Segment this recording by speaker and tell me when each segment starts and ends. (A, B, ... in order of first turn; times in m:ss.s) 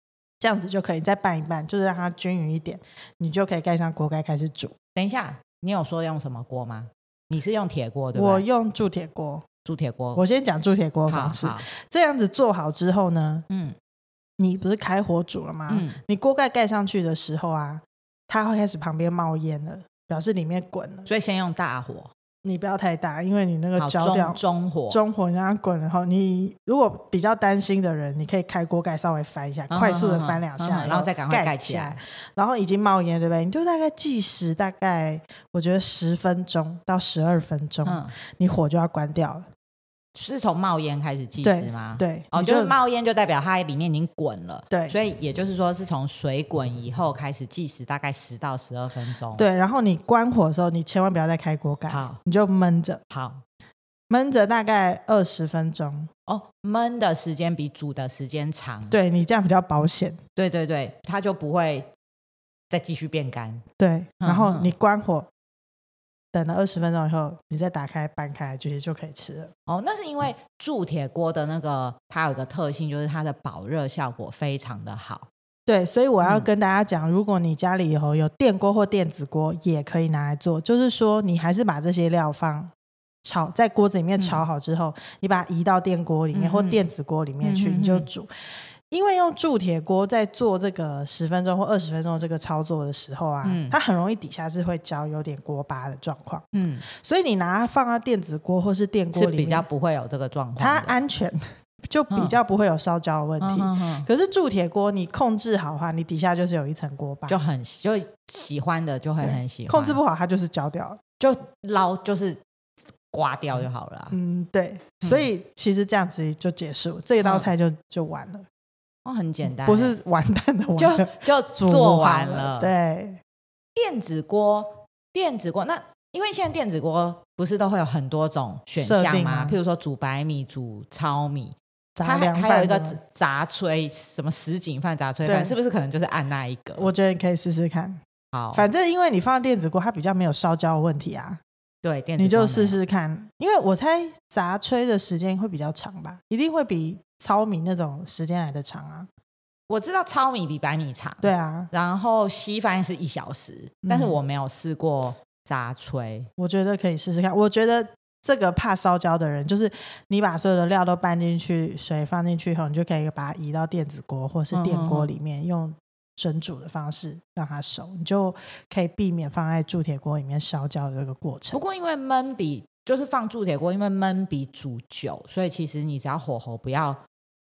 0:00.4-0:04.7 A
0:05.0-0:08.4 B
0:08.2-0:09.4 A
0:09.6-0:10.2 B
0:10.2-0:13.4 A
0:11.1-0:11.7 B
0:13.5-0:13.8 B
0:14.4-0:21.1 A
0:15.7-0:16.0 B
0:21.1-0:22.1 B
0:22.4-0:39.4 A
0:23.8-0:25.0 B
0:29.7-0:32.0 B
0:37.8-0:38.1 B
0:40.2-0:49.4 B
0:41.4-0:42.8 A
0:44.7-0:45.0 A
0:49.4-0:53.0 A
0:51.9-0:52.2 B
0:53.1-0:53.4 B
0:54.1-0:56.1 A
0:56.3-0:59.0 B
0:58.9-1:00.2 A
1:00.4-1:01.9 B
1:02.7-1:03.6 B
1:03.8-1:05.3 A
1:04.2-1:04.7 B
1:06.3-1:09.5 A
1:09.7-1:15.3 B
1:15.7-1:22.7 A
1:16.2-1:16.5 B
1:23.2-1:28.3 A
1:24.2-1:24.4 B
1:26.3-1:26.9 B
1:27.4-1:28.1 B
1:28.9-1:39.7 A
1:33.4-1:33.8 B
1:36.5-1:36.9 B
1:39.1-1:41.0 B
1:40.6-1:47.4 A
1:42.1-1:42.4 B
1:43.4-1:44.1 B
1:47.3-1:50.0 B
1:49.2-1:51.0 A
1:51.2-1:52.4 B
1:53.1-1:54.1 B
1:54.1-1:58.4 A
1:57.2-1:57.5 B
1:59.0-2:00.0 B
1:59.6-2:03.2 A
2:00.8-2:02.7 B
2:03.8-2:16.9 B
2:08.8-2:09.6 A
2:12.0-2:13.0 A
2:15.2-2:15.6 A
2:16.8-2:18.0 A
2:18.3-2:18.7 B
2:18.5-2:21.4 A
2:21.8-2:22.8 B
2:22.2-2:29.1 A
2:29.7-2:36.3 B
2:31.2-2:31.7 A
2:33.8-2:34.2 A
2:36.4-2:51.6 A
2:44.5-2:45.1 B
2:51.5-2:57.0 B